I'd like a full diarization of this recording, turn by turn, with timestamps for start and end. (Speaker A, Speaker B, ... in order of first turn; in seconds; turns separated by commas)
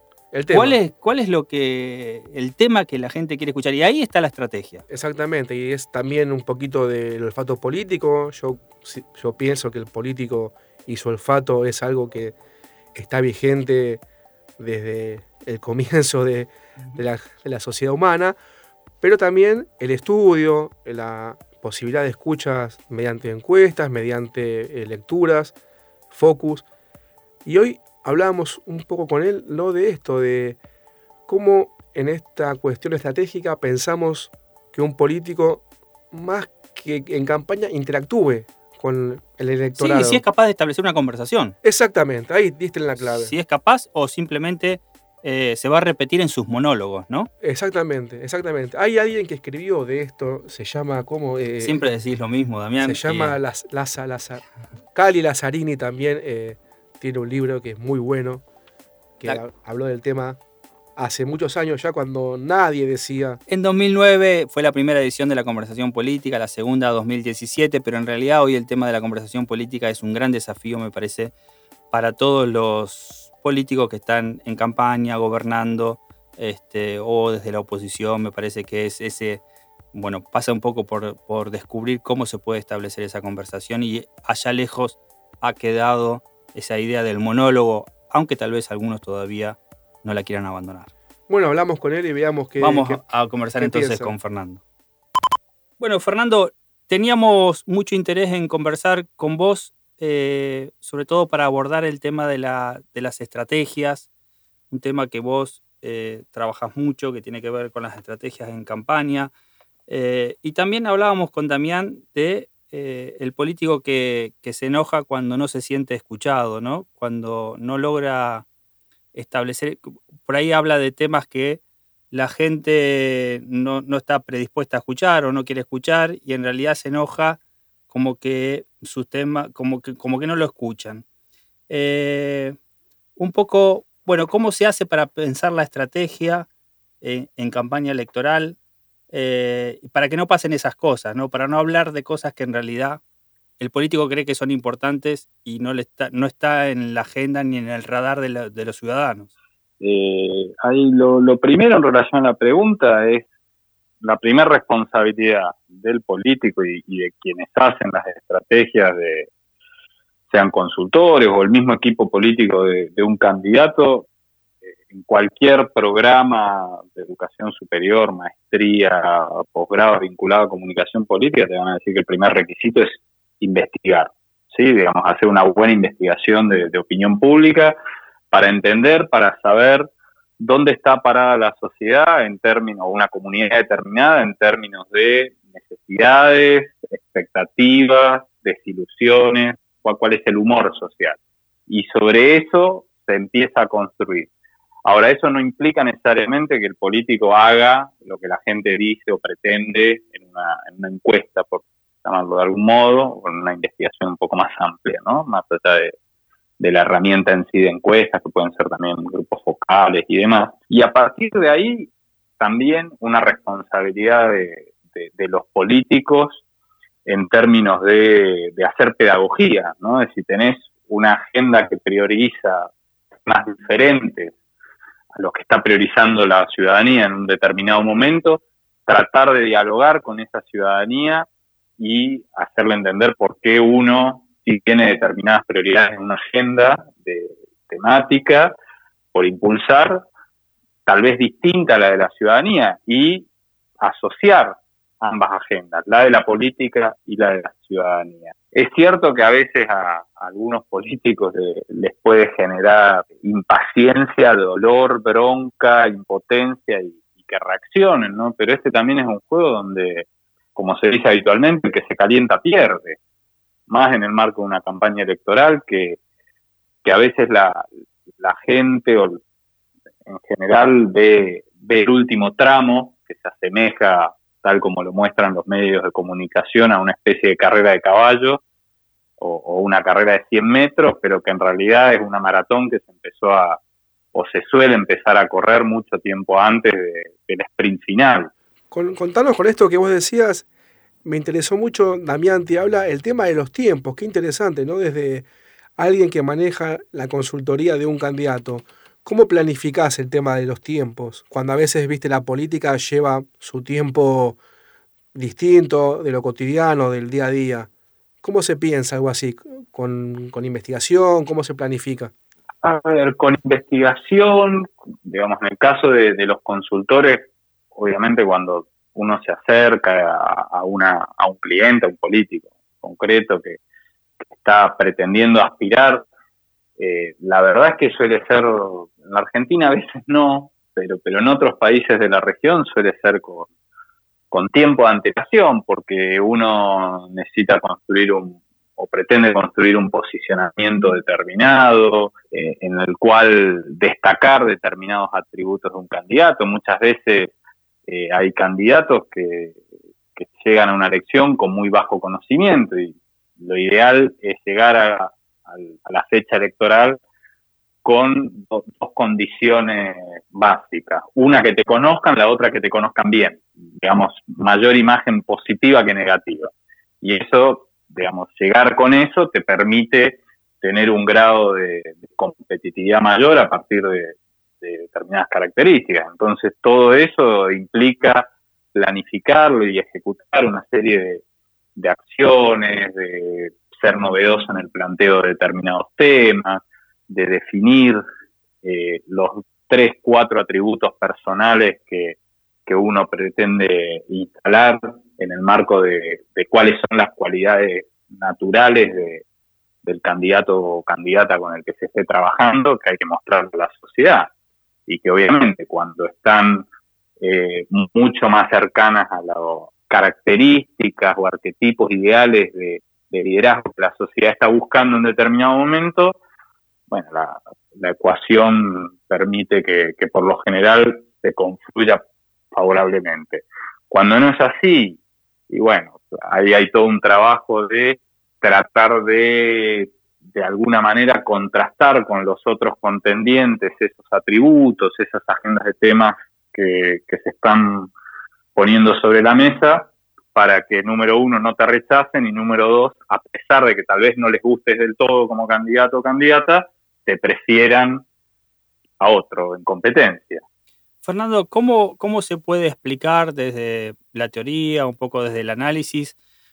Speaker A: 0.3-0.8, Speaker B: 0.5-4.8, Speaker A: 4.9-12.3, Speaker A: 12.9-14.0, Speaker A: 14.6-18.4, Speaker A: 19.0-25.6, Speaker A: 26.1-26.6, Speaker A: 27.4-30.6, Speaker A: 31.3-40.2, Speaker B: 39.8-41.5, Speaker A: 41.6-43.3, Speaker B: 43.0-47.3, Speaker A: 47.4-51.8, Speaker B: 51.6-53.4, Speaker A: 52.8-58.4, Speaker A: 59.2-60.4, Speaker A: 61.0-63.4, Speaker B: 63.5-71.3, Speaker B: 71.9-79.4, Speaker B: 79.9-90.9, Speaker A: 91.3-93.0, Speaker B: 92.6-94.6, Speaker A: 93.6-94.1, Speaker B: 95.8-104.1, Speaker B: 104.7-109.3, Speaker B: 109.9-118.4, Speaker B: 119.1-131.0, Speaker B: 131.7-132.6, Speaker B: 133.2-136.5, Speaker B: 137.0-138.6, Speaker B: 139.1-143.0, Speaker B: 143.6-149.3, Speaker C: 149.8-153.2, Speaker C: 154.0-159.3, Speaker C: 160.3-164.1, Speaker C: 164.9-177.8, Speaker C: 178.3-179.9, Speaker C: 180.4-194.3, Speaker C: 194.8-205.9, Speaker C: 206.6-216.4, Speaker C: 217.1-222.7, Speaker C: 223.2-224.3, Speaker C: 225.1-231.2, Speaker C: 231.8-238.5, Speaker C: 239.1-240.0, Speaker C: 240.8-243.3, Speaker C: 243.8-263.0, Speaker C: 263.7-266.0, Speaker C: 266.8-267.7, Speaker C: 268.2-269.2, Speaker C: 270.1-278.4, Speaker C: 279.2-283.6, Speaker C: 284.1-288.3, Speaker A: 288.7-290.4, Speaker A: 291.0-295.2, Speaker A: 295.8-304.4, Speaker A: 305.1-307.7, Speaker A: 308.2-312.1, Speaker C: 312.6-323.6, Speaker C: 324.3-326.1, Speaker C: 326.8-333.5, Speaker C: 334.3-347.3, Speaker C: 347.9-349.6, Speaker C: 350.1-357.0, Speaker C: 357.8-381.2, Speaker C: 381.8-388.0, Speaker C: 388.6-399.2, Speaker C: 399.8-404.3, Speaker C: 404.9-406.7, Speaker C: 407.2-416.2, Speaker C: 416.9-425.0, Speaker C: 425.5-437.9, Speaker C: 438.5-448.0, Speaker C: 449.0-450.4, Speaker B: 451.0-456.1